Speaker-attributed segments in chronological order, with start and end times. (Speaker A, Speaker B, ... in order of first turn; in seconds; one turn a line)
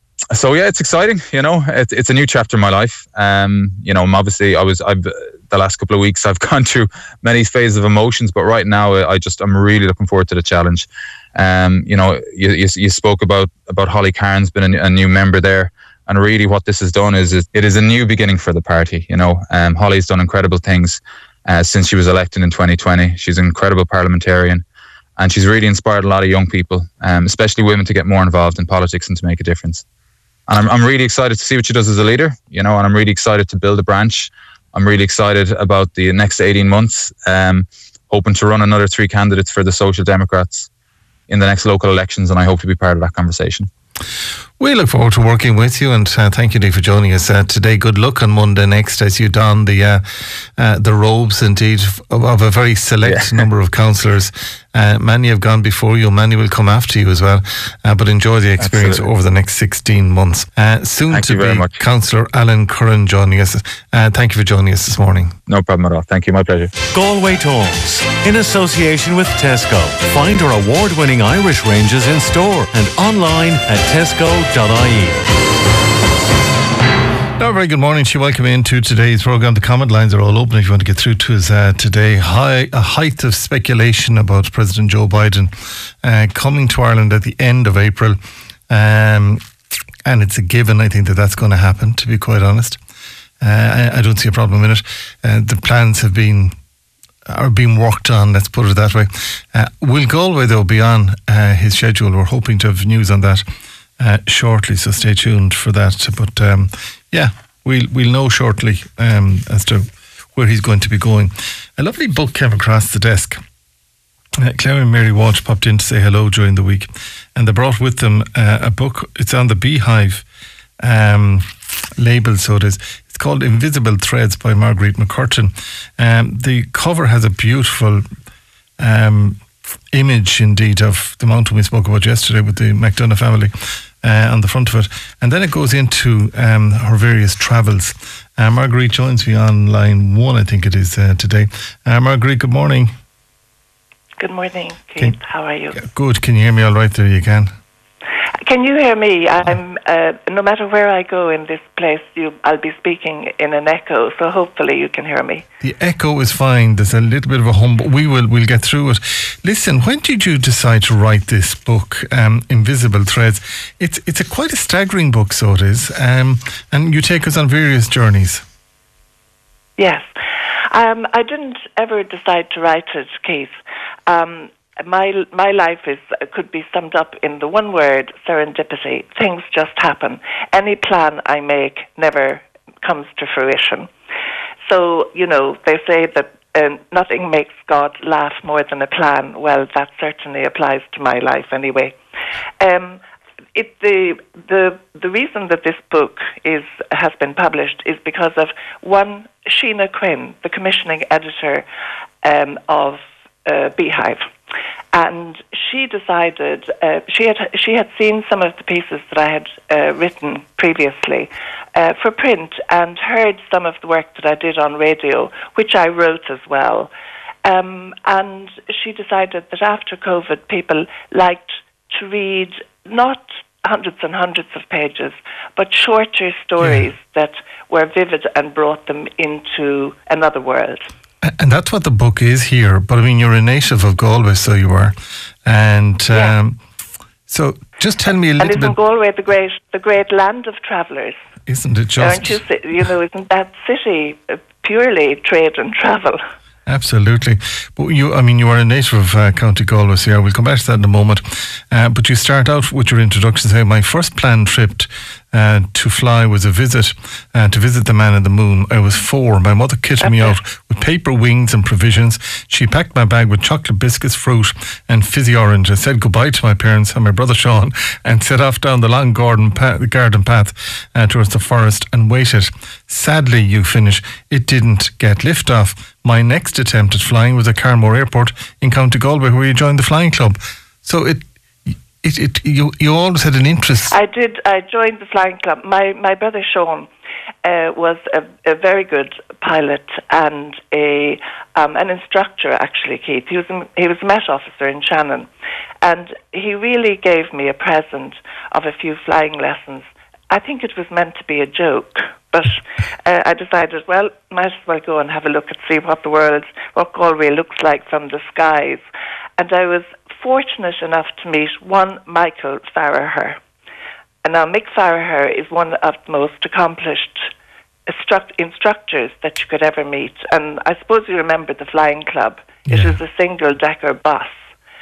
Speaker A: 0.3-24.6
Speaker A: 25.2-29.8
Speaker A: 30.5-40.7
Speaker A: 41.3-43.7
Speaker B: 44.6-65.4
Speaker A: 53.0-53.5
Speaker A: 58.6-59.0
Speaker A: 61.1-61.8
Speaker A: 65.5-66.7
Speaker C: 66.9-75.2
Speaker B: 77.4-88.2
Speaker B: 88.7-89.5
Speaker B: 90.0-92.8
Speaker B: 93.4-96.6
Speaker B: 97.3-103.5
Speaker B: 104.0-113.4
Speaker B: 114.4-120.2
Speaker B: 120.8-128.0
Speaker B: 128.8-142.9
Speaker D: 144.2-145.8
Speaker B: 145.7-147.5
Speaker D: 148.4-155.4
Speaker B: 155.6-168.4
Speaker D: 169.8-170.1
Speaker D: 170.7-183.9
Speaker D: 184.7-192.0
Speaker D: 192.6-193.0
Speaker D: 193.6-201.7
Speaker D: 202.2-204.3
Speaker D: 204.9-216.9
Speaker D: 217.4-230.9
Speaker B: 231.2-236.6
Speaker B: 237.3-238.8
Speaker D: 238.4-241.2
Speaker B: 241.5-242.4
Speaker D: 242.0-246.2
Speaker B: 246.7-283.9
Speaker D: 260.0-260.4
Speaker D: 283.9-286.9
Speaker D: 287.4-295.3
Speaker D: 295.8-308.8
Speaker D: 309.4-313.4
Speaker D: 314.2-317.3
Speaker D: 317.9-324.4